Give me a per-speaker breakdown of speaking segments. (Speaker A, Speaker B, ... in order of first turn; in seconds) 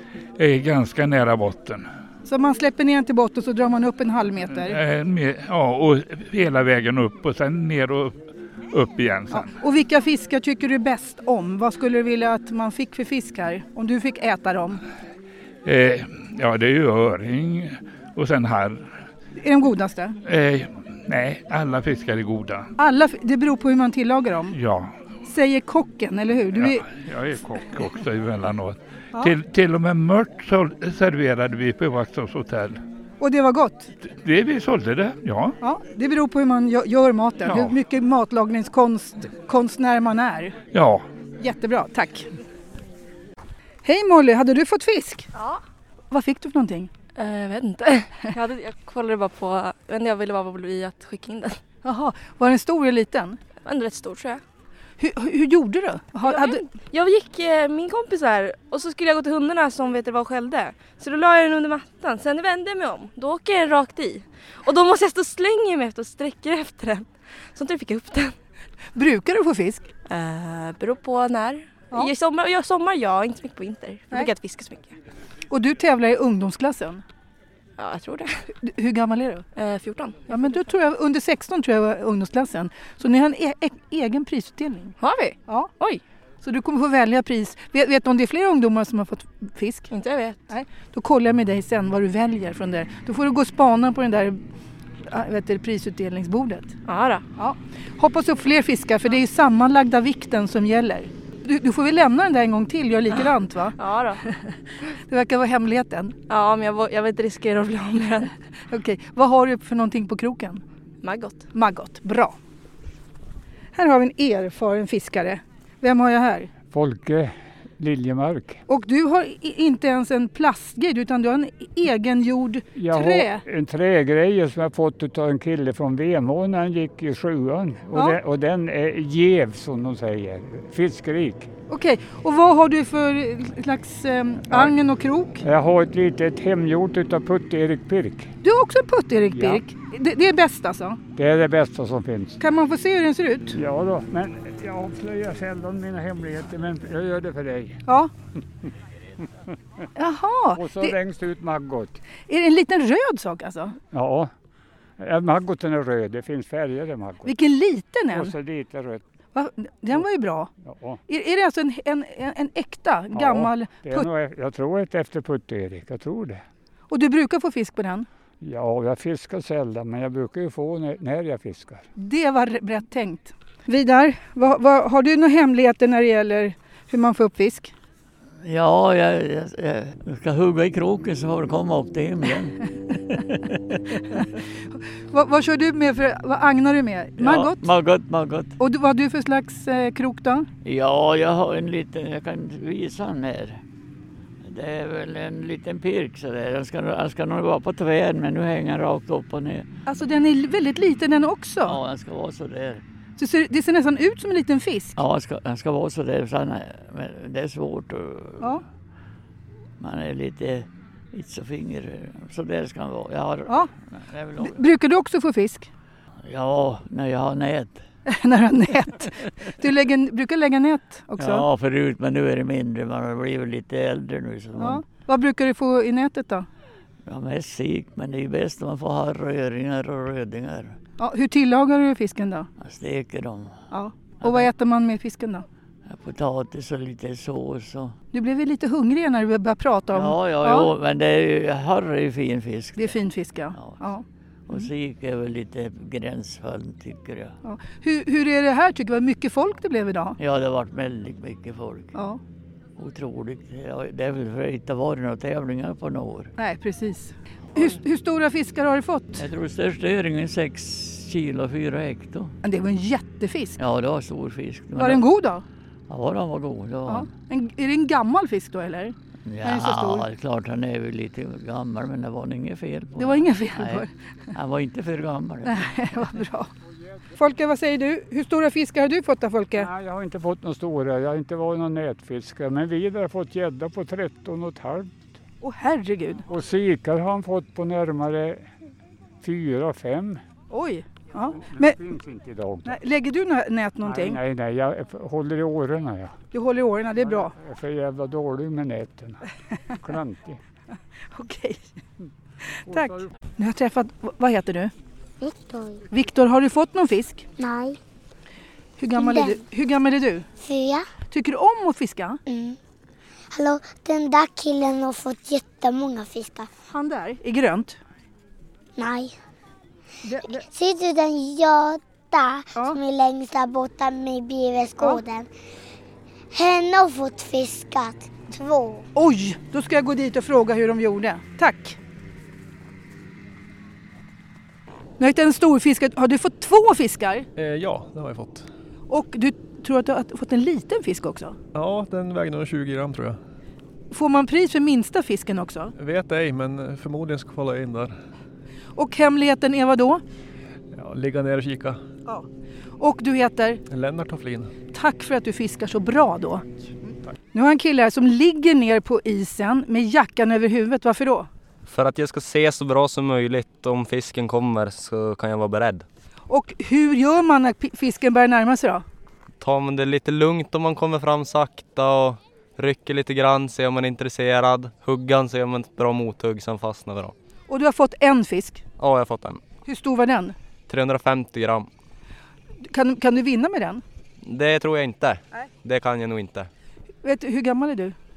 Speaker A: 0.4-1.9, 4.6-8.2, 8.7-9.5, 15.7-18.9, 20.2-22.7, 24.5-25.0, 26.6-32.8, 34.1-35.6, 37.5-37.8, 40.7-41.0
Speaker B: 2.2-4.8, 9.3-14.8, 19.4-20.2, 22.8-24.6, 25.2-26.9, 33.2-33.9, 35.6-40.5, 41.4-42.3, 43.9-45.3, 46.1-46.9, 51.8-53.4, 55.0-56.6, 69.0-69.9, 75.5-77.0, 78.6-79.5, 80.3-85.0, 86.4-89.9, 90.5-94.4, 95.0-96.8, 97.4-104.4, 104.9-106.2, 108.7-110.6, 111.5-112.4, 113.8-116.5, 118.7-123.4, 127.9-128.2, 131.7-135.4, 138.4-141.0, 142.4-143.6, 147.9-148.1, 149.9-151.0, 152.3-153.8, 157.2-158.3, 159.3-160.5, 161.1-164.1, 166.9-168.1, 172.0-177.7, 185.1-187.7, 188.6-190.5, 199.9-201.8, 203.2-204.9, 214.4-215.7, 218.1-221.4, 224.6-226.5, 231.0-232.5, 233.7-235.4, 238.1-240.7, 242.8-244.7, 247.4-250.2, 251.9-252.2, 256.4-259.2, 262.4-263.6, 264.8-265.4, 266.9-270.1, 273.0-273.9, 275.5-276.5, 277.1-279.7, 285.4-286.3, 290.5-291.8, 292.6-294.2, 296.3-297.4, 301.1-301.6, 302.5-304.7, 305.9-307.3, 308.8-310.3, 311.1-312.2, 316.7-317.8, 320.0-320.4, 328.9-331.8, 335.0-337.3, 338.9-341.4, 343.9-345.7, 348.8-350.0, 352.8-353.6, 354.7-356.5, 357.3-361.3, 366.3-368.9, 377.5-378.6, 379.6-380.4, 382.6-383.8, 387.0-388.0
Speaker C: 45.3-45.6, 47.2-51.6, 53.6-54.4, 56.2-68.4, 70.1-75.0, 77.8-78.5, 79.5-80.3, 85.0-86.0, 89.9-90.4, 96.9-97.2, 103.8-104.2, 106.3-108.3, 111.0-111.5
Speaker D: 116.7-118.6, 122.8-131.5, 135.4-138.3, 139.3-139.6, 141.2-142.4, 143.5-147.8, 150.6-152.0, 153.9-154.3, 155.0-157.3, 158.1-159.0, 160.6-161.0, 163.1-166.4, 168.4-171.8, 279.6-284.9, 286.3-288.5, 289.2-290.2, 291.3-292.8, 293.8-296.1, 297.0-299.2, 299.8-300.4, 302.7-303.0
Speaker E: 178.4-182.6, 183.1-183.6, 187.2-188.5, 190.6-193.6, 194.4-199.7, 201.7-202.8, 205.0-208.5, 209.8-214.6, 216.2-217.8, 221.2-224.8, 227.1-230.8, 232.6-233.5, 234.2-234.5, 235.9-237.9, 239.9-243.0, 243.5-243.8, 244.5-247.3, 250.2-251.9, 252.8-256.3, 259.2-262.3, 263.6-265.1, 265.9-267.1, 269.2-275.7
Speaker F: 305.2-305.8, 307.4-307.8, 309.0-309.4, 310.4-310.9, 312.3-312.6, 313.3-316.5, 318.8-319.1, 320.4-325.3, 326.3-328.9
Speaker G: 337.4-338.4, 341.6-343.2, 345.8-347.9, 350.8-351.8, 353.7-354.5
Speaker H: 361.7-365.9, 369.4-377.1, 378.8-379.4, 380.7-381.7, 384.2-386.5